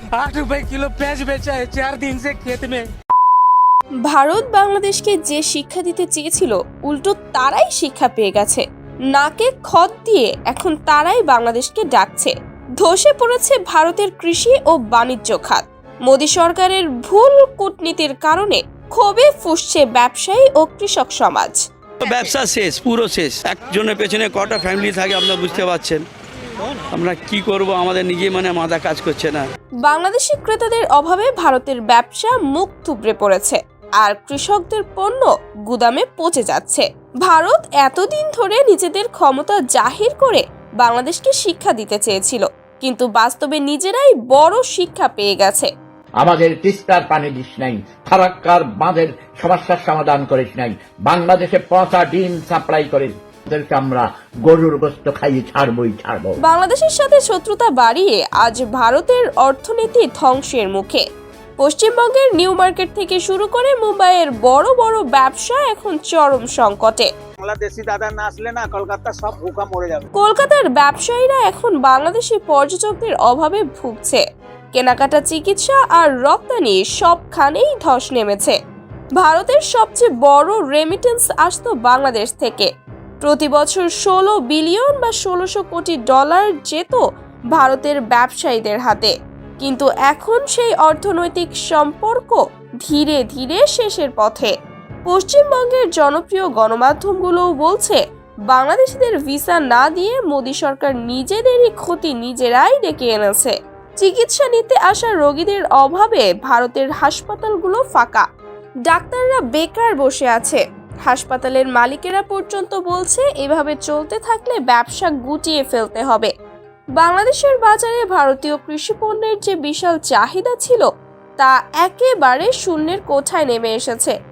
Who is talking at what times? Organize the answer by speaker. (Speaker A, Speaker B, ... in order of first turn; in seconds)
Speaker A: 0.1-2.9
Speaker B: 4.1-21.6, 29.8-45.7, 56.4-61.0, 61.6-67.1, 70.2-74.2, 74.7-78.6, 79.2-82.7, 83.2-87.0, 87.5-94.5, 95.1-108.2, 108.9-116.3, 117.0-120.9, 121.4-124.1
Speaker C: 22.0-26.0, 26.9-29.5
Speaker D: 46.2-56.4
Speaker E: 67.4-70.0